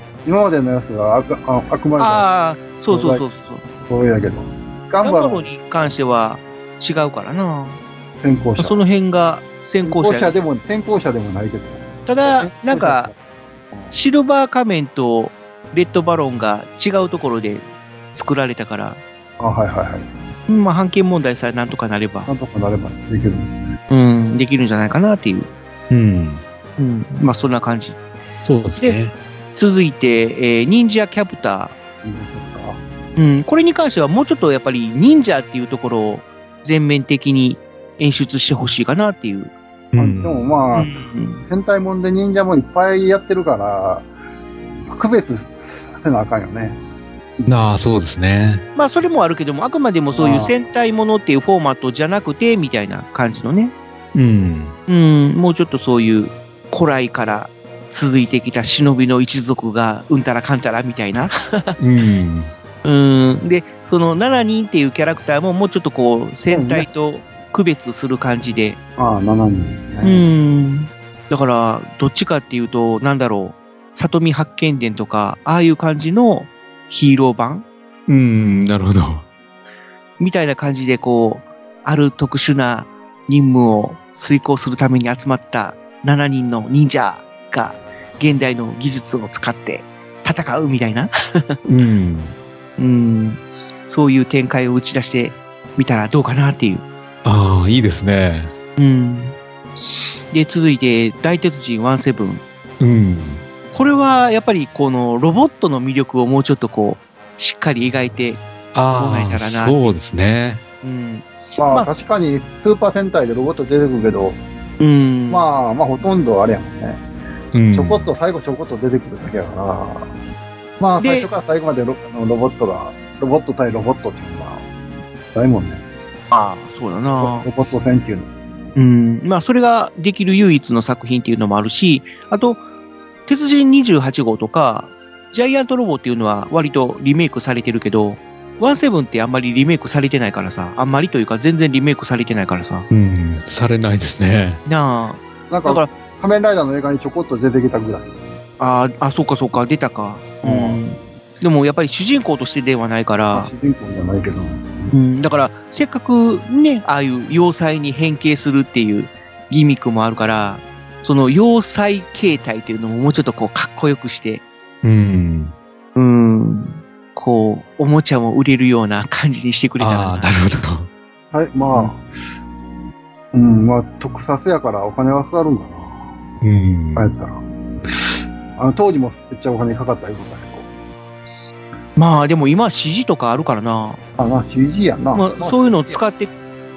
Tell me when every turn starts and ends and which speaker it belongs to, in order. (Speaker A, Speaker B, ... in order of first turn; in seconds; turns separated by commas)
Speaker A: 0.2-2.3, Speaker B: 2.0-3.6, Speaker A: 2.9-3.2, Speaker A: 3.8-5.5, Speaker B: 5.0-7.8, Speaker A: 8.2-8.8, Speaker B: 8.6-10.4, Speaker A: 9.8-13.2, Speaker B: 12.1-13.1, Speaker B: 13.9-19.0, Speaker A: 19.4-20.1, Speaker B: 20.5-22.3, Speaker A: 22.3-23.6, Speaker B: 23.9-25.5, Speaker C: 25.9-26.4, Speaker B: 26.8-28.0, Speaker C: 28.4-29.1, Speaker B: 29.6-31.7, Speaker A: 32.0-32.8, Speaker B: 33.1-39.5, Speaker C: 39.9-40.5, Speaker A: 40.0-44.1, Speaker B: 40.7-41.4, Speaker A: 44.9-46.8, Speaker C: 47.5-48.6, Speaker B: 48.8-53.7, Speaker A: 50.1-50.5, Speaker C: 54.1-54.7, Speaker B: 54.9-61.8, Speaker C: 61.8-62.5, Speaker B: 62.8-68.8, Speaker A: 66.5-66.9, Speaker A: 69.0-70.2, Speaker B: 70.0-77.6, Speaker C: 78.1-79.2, Speaker B: 80.2-91.5, Speaker C: 91.7-92.3, Speaker B: 92.8-96.8, Speaker C: 97.2-98.5, Speaker B: 98.8-99.3, Speaker B: 100.3-102.4, Speaker C: 102.8-103.4, Speaker B: 103.7-109.9, Speaker C: 108.7-110.6, Speaker B: 110.8-111.9, Speaker A: 111.6-114.4, Speaker B: 114.8-115.5, Speaker A: 115.3-117.0, Speaker C: 117.5-118.1, Speaker A: 117.7-120.1, Speaker A: 120.8-124.7, Speaker B: 121.0-121.3, Speaker A: 125.3-125.8, Speaker B: 126.3-127.5, Speaker A: 127.1-128.3, Speaker B: 128.8-132.6, Speaker B: 133.3-142.8, Speaker C: 142.9-144.6, Speaker B: 144.7-145.9, Speaker A: 145.5-148.1, Speaker B: 148.6-153.5, Speaker A: 150.4-150.8, Speaker A: 153.3-154.9, Speaker B: 154.9-164.4, Speaker C: 164.8-165.5, Speaker B: 165.9-170.3, Speaker C: 169.8-170.9, Speaker A: 171.3-172.2, Speaker A: 173.3-176.0, Speaker C: 176.4-177.1, Speaker A: 176.9-180.7, Speaker B: 182.0-184.0, Speaker A: 184.2-186.0, Speaker B: 185.1-186.3